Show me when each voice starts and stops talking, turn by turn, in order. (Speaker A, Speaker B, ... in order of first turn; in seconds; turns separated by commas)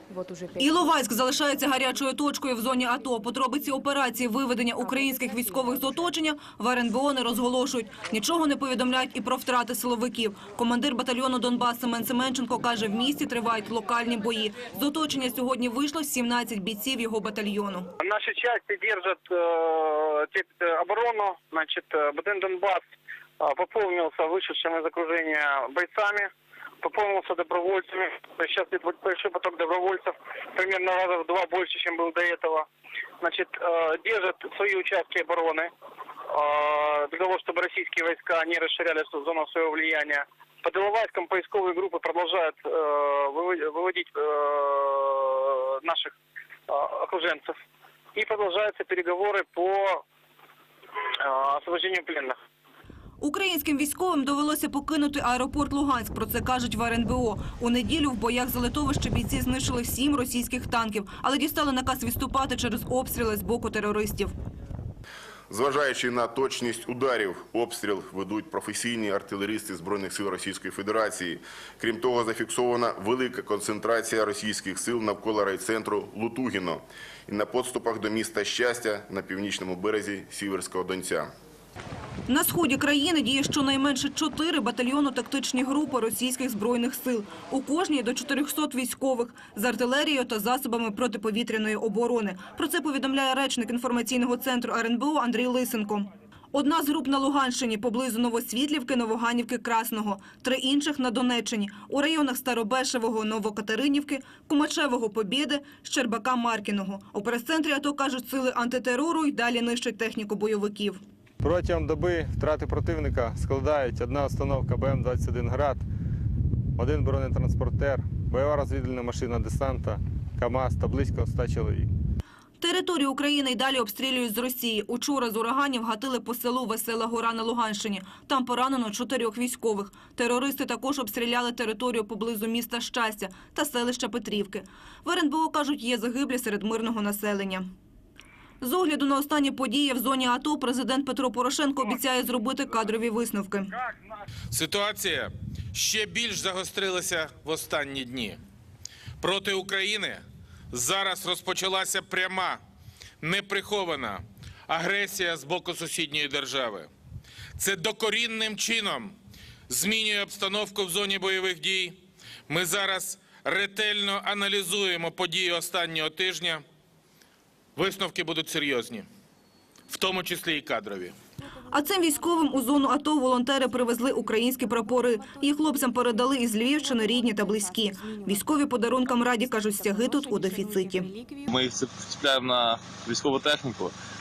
Speaker A: 0.6-17.9, Speaker B: 18.0-22.9, Speaker B: 23.4-26.3, Speaker B: 26.8-32.7, Speaker B: 33.2-35.7, Speaker B: 36.3-46.1, Speaker B: 46.7-47.5, Speaker B: 48.2-50.0, Speaker B: 51.2-52.4, Speaker A: 53.2-64.3, Speaker C: 65.5-81.3, Speaker A: 82.3-111.0, Speaker D: 111.4-115.8, Speaker D: 116.8-121.9, Speaker A: 122.6-137.7, Speaker A: 138.6-143.8, Speaker E: 144.5-148.4, Speaker E: 149.2-152.6, Speaker E: 153.2-156.9, Speaker E: 157.6-159.1, Speaker E: 159.7-162.0, Speaker E: 162.5-166.6, Speaker E: 167.8-169.0, Speaker E: 169.9-171.1, Speaker A: 171.7-181.2, Speaker F: 181.5-183.9